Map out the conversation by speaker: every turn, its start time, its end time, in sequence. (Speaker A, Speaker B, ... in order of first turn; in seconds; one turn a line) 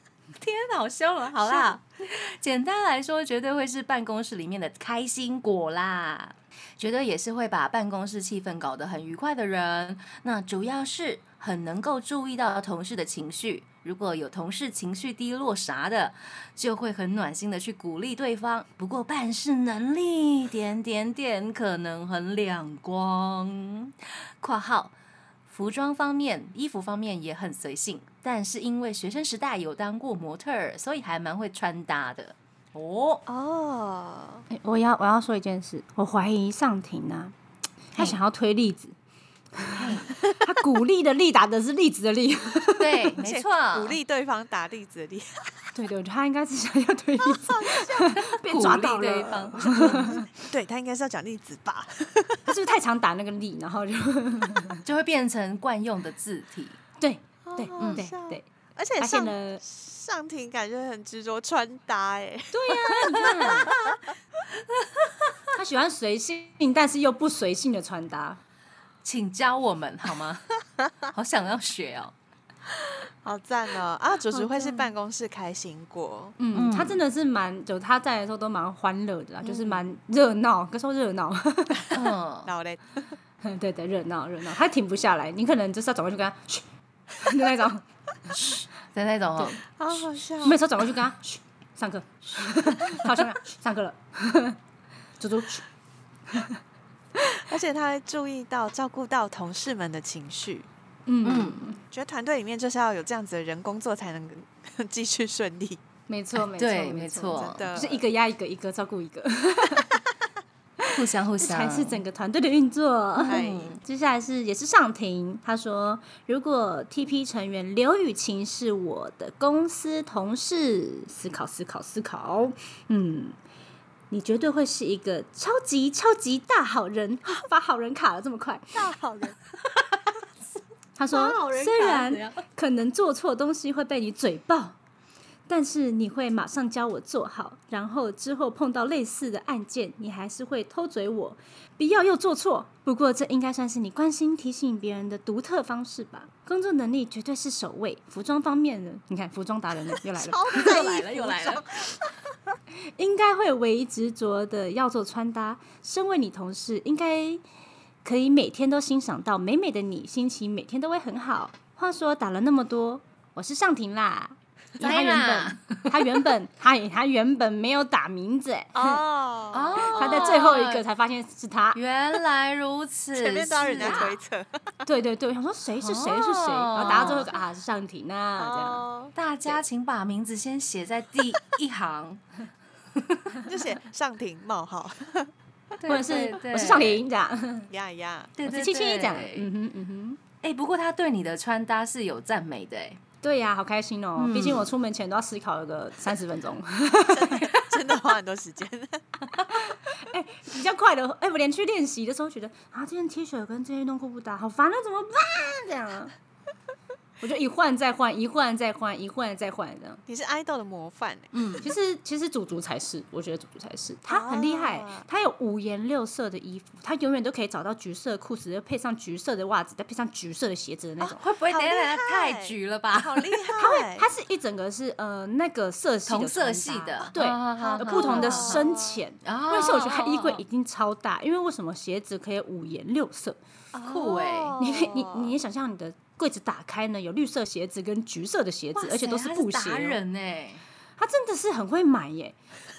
Speaker A: 0.3-24.9
Speaker A: 25.5-33.2
Speaker B: 33.3-34.4
Speaker C: 34.5-37.3
Speaker C: 37.9-38.9
Speaker C: 39.5-43.1
Speaker A: 39.7-40.1
Speaker A: 42.8-44.0
Speaker B: 43.2-45.5
Speaker C: 45.7-50.3
Speaker B: 47.3-48.1
Speaker A: 48.2-50.2
Speaker B: 49.9-52.4
Speaker C: 52.5-54.8
Speaker A: 54.8-56.8
Speaker C: 57.0-58.4
Speaker B: 57.4-64.0
Speaker A: 57.8-58.0
Speaker C: 59.0-59.6
Speaker C: 62.5-63.7
Speaker C: 65.5-68.4
Speaker A: 69.0-70.5
Speaker A: 71.1-72.1
Speaker B: 73.2-76.3
Speaker C: 74.3-74.9
Speaker C: 76.4-81.9
Speaker A: 76.5-77.0
Speaker B: 79.5-79.7
Speaker A: 81.9-82.5
Speaker B: 82.4-83.1
Speaker C: 83.4-88.4
Speaker A: 88.3-89.6
Speaker B: 89.8-90.6
Speaker C: 90.4-94.6
Speaker C: 95.2-95.6
Speaker C: 96.3-96.6
Speaker B: 97.5-100.7
Speaker C: 101.1-101.8
Speaker A: 101.2-101.7
Speaker B: 101.9-105.8
Speaker C: 106.1-110.0
Speaker A: 106.3-107.7
Speaker B: 107.3-108.0
Speaker C: 110.8-123.3
Speaker A: 110.9-112.0
Speaker A: 113.2-113.8
Speaker B: 113.2-113.8
Speaker C: 124.1-128.8
Speaker B: 128.7-129.4
Speaker C: 131.0-134.8
Speaker A: 131.1-132.4
Speaker C: 135.5-150.7
Speaker B: 150.2-152.1
Speaker A: 150.5-151.7
Speaker C: 153.0-157.4
Speaker C: 158.0-169.0
Speaker A: 164.8-166.2
Speaker B: 168.7-170.5
Speaker A: 169.5-170.8
Speaker C: 169.8-171.8
Speaker A: 171.7-174.2
Speaker B: 173.1-174.7
Speaker C: 173.8-174.1
Speaker C: 174.8-178.8
Speaker A: 175.8-177.3
Speaker B: 178.4-179.1
Speaker A: 179.1-182.2
Speaker A: 182.9-183.4
Speaker B: 183.4-185.3
Speaker A: 185.8-187.0
Speaker C: 185.8-187.7
Speaker B: 187.7-188.3
Speaker A: 188.4-189.5
Speaker C: 188.4-190.2
Speaker A: 190.4-193.0
Speaker C: 193.2-197.7
Speaker A: 194.2-194.7
Speaker B: 197.1-199.0
Speaker C: 199.5-206.1
Speaker C: 207.2-210.0
Speaker B: 210.1-211.3
Speaker A: 211.3-211.7
Speaker C: 211.6-221.2
Speaker B: 214.1-215.1
Speaker A: 221.0-223.4
Speaker B: 221.5-224.1
Speaker C: 223.6-233.4
Speaker A: 226.1-228.7
Speaker B: 227.6-229.0
Speaker A: 229.2-230.4
Speaker B: 233.7-235.3
Speaker A: 233.8-234.6
Speaker C: 234.6-240.0
Speaker A: 238.8-240.6
Speaker C: 241.0-242.3